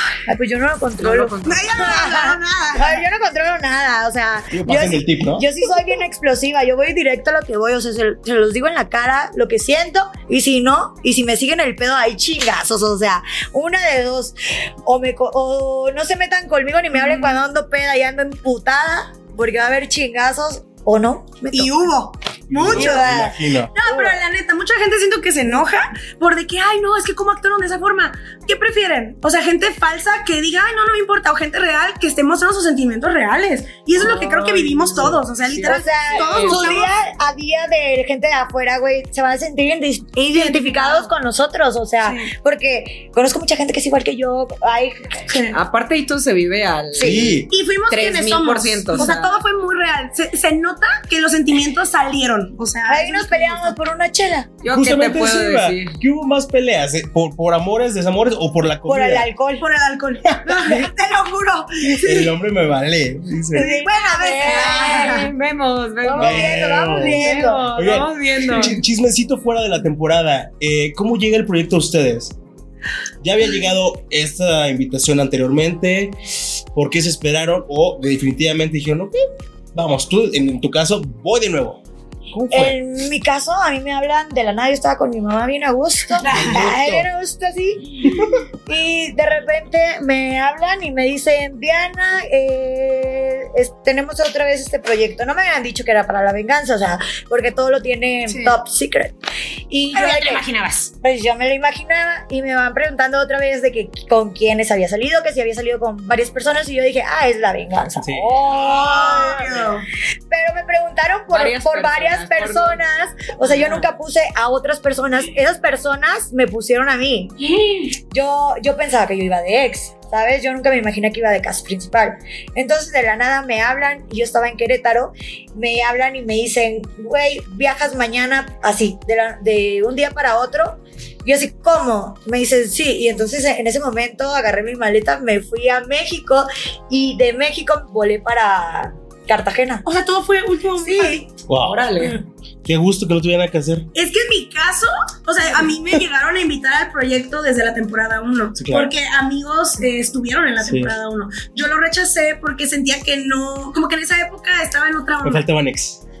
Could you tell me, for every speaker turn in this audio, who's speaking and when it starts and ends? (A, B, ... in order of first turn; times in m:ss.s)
0:00.3-0:21.8 A
0:01.0-0:02.2 B
0:01.4-0:03.0 C
0:04.5-0:05.4 D
0:17.0-0:17.3 C
0:21.4-0:23.2 C
0:22.5-0:23.7 D
0:22.6-0:24.2 A
0:23.7-0:37.0 C
0:34.0-0:36.8 B
0:35.6-0:45.3 A
0:40.3-0:41.1 C
0:42.0-0:42.3 C
0:45.3-0:45.6 C
0:45.5-0:49.2 B
0:46.9-0:47.4 A
0:47.0-0:47.5 D
0:47.5-0:53.7 C
0:48.9-0:49.3 A
0:52.9-0:54.5 A
0:54.6-0:56.0 B
0:54.7-0:59.3 D
0:58.8-0:59.6 A
0:59.6-1:02.3 C
1:01.8-1:03.7 D
1:03.5-1:05.3 A
1:03.6-1:05.3 C
1:04.4-1:08.8 B
1:06.0-1:07.7 A
1:06.2-1:12.4 D
1:13.2-1:16.2 D
1:16.7-1:19.2 D
1:19.7-1:21.8 D
1:22.3-1:22.8 D
1:22.5-1:39.2 A
1:26.2-1:26.6 C
1:26.2-1:27.1 D
1:38.3-1:38.6 C
1:39.7-1:40.4 A
1:39.9-1:40.9 B
1:41.0-1:49.7 A
1:48.0-1:48.4 D
1:48.5-1:49.8 C
1:50.3-1:57.4 A
1:51.3-1:52.8 B
1:53.4-1:53.9 B
1:57.4-1:57.9 C
1:58.1-2:19.8 A
2:19.8-2:21.2 C
2:20.8-2:21.2 A
2:21.5-2:22.1 D
2:21.6-2:22.2 B
2:22.6-2:23.9 D
2:23.9-2:35.4 C
2:28.6-2:28.9 D
2:30.6-2:31.0 D
2:35.2-2:36.0 D